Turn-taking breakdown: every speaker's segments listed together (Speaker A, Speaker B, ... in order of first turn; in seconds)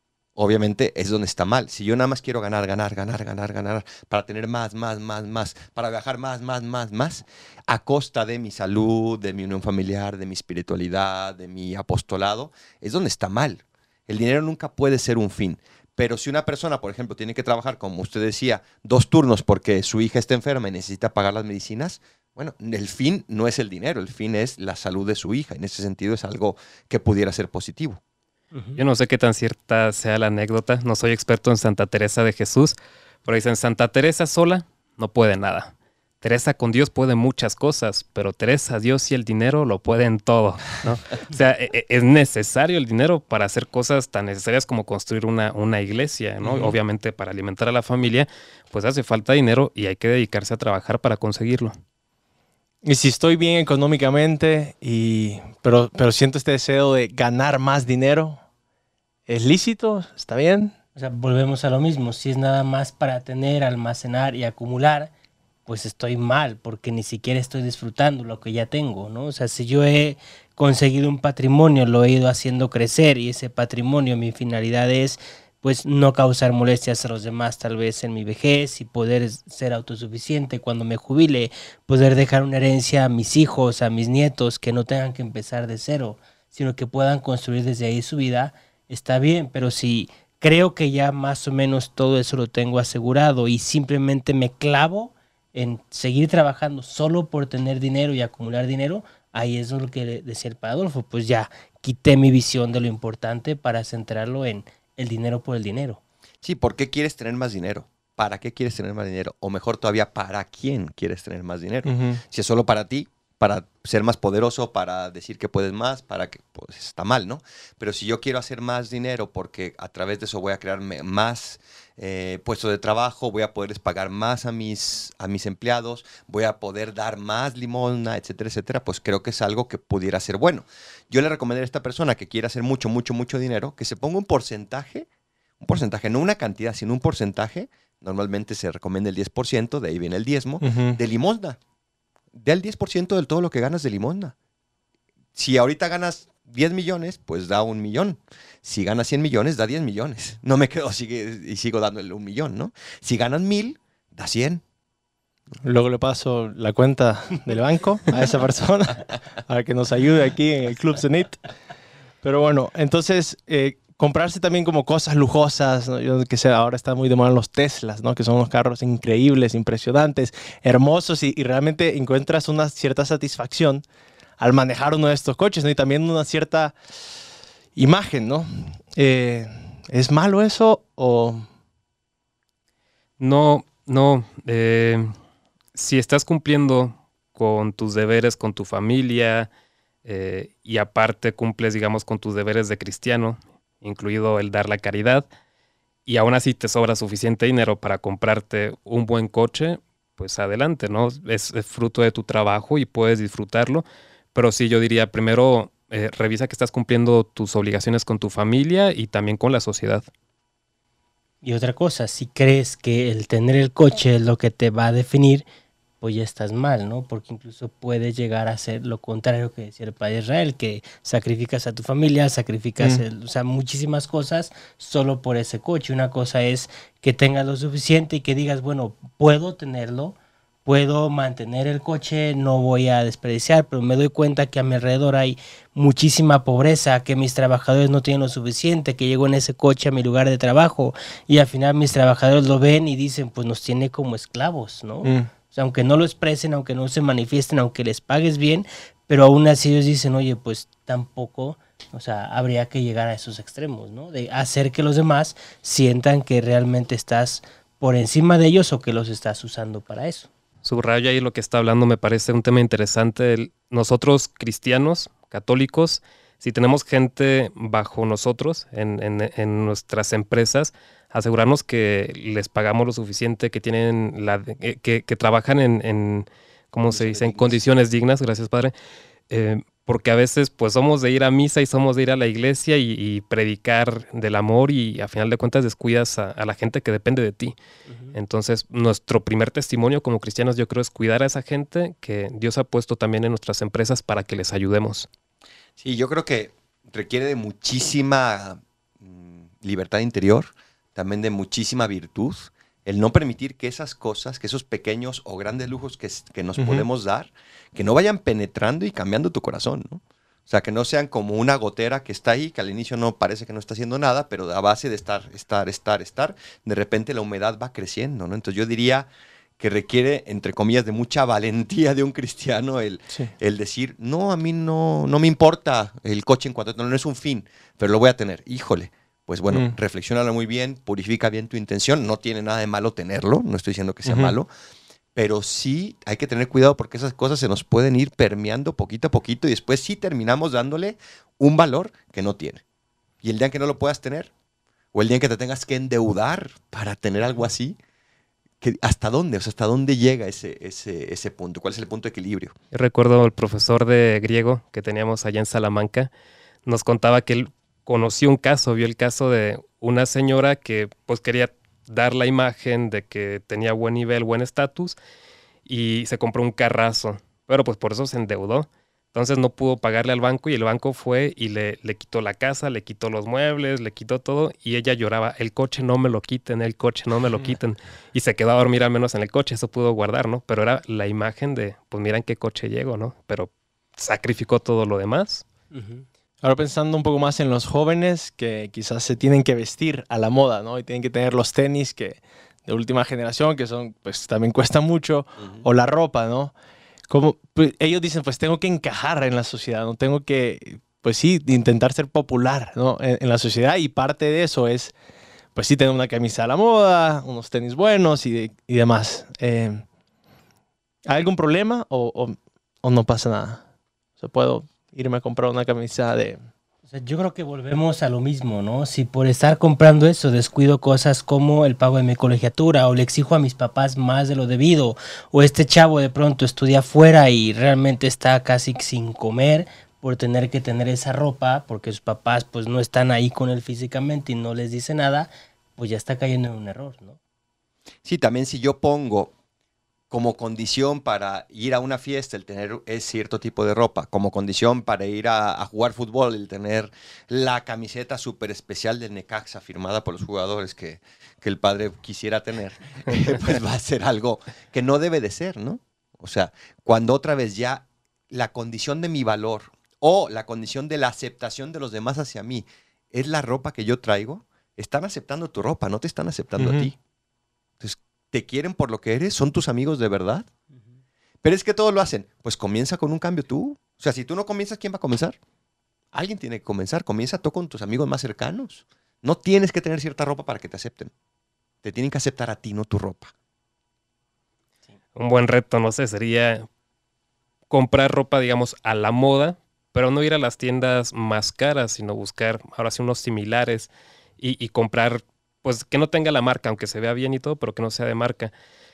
Speaker A: 0.4-28.0, 106.4-135.1, 135.6-141.6, 142.3-144.3, 145.3-154.6, 276.9-277.6, 295.8-334.5, 335.1-342.6, 343.2-344.3, 344.9-347.8, 348.6-352.6, 395.4-395.7, 438.1-439.3, 440.1-467.0, 467.8-470.5, 471.4-475.4, 476.1-481.1, 481.8-483.3
Speaker B: 28.5-28.8, 61.0-65.1, 65.7-106.0, 211.4-215.4, 216.0-260.3, 287.9-288.1, 385.7-386.1, 416.9-437.2
Speaker C: 28.8-51.7, 183.2-185.1, 185.8-189.5, 190.1-195.3, 196.1-210.1, 260.6-278.7, 279.3-287.6, 288.1-295.1, 352.7-356.1, 356.7-365.0, 365.7-385.4, 485.1-486.7, 487.7-498.5
Speaker D: 52.8-58.4, 59.3-60.7, 111.8-112.2, 140.6-141.0, 155.6-161.4, 162.2-173.8, 174.4-176.8, 177.8-181.5, 245.0-245.3, 306.6-306.9, 334.1-334.4, 386.4-396.5, 397.1-404.9, 405.6-409.8, 411.1-413.6, 414.2-416.4, 466.6-466.9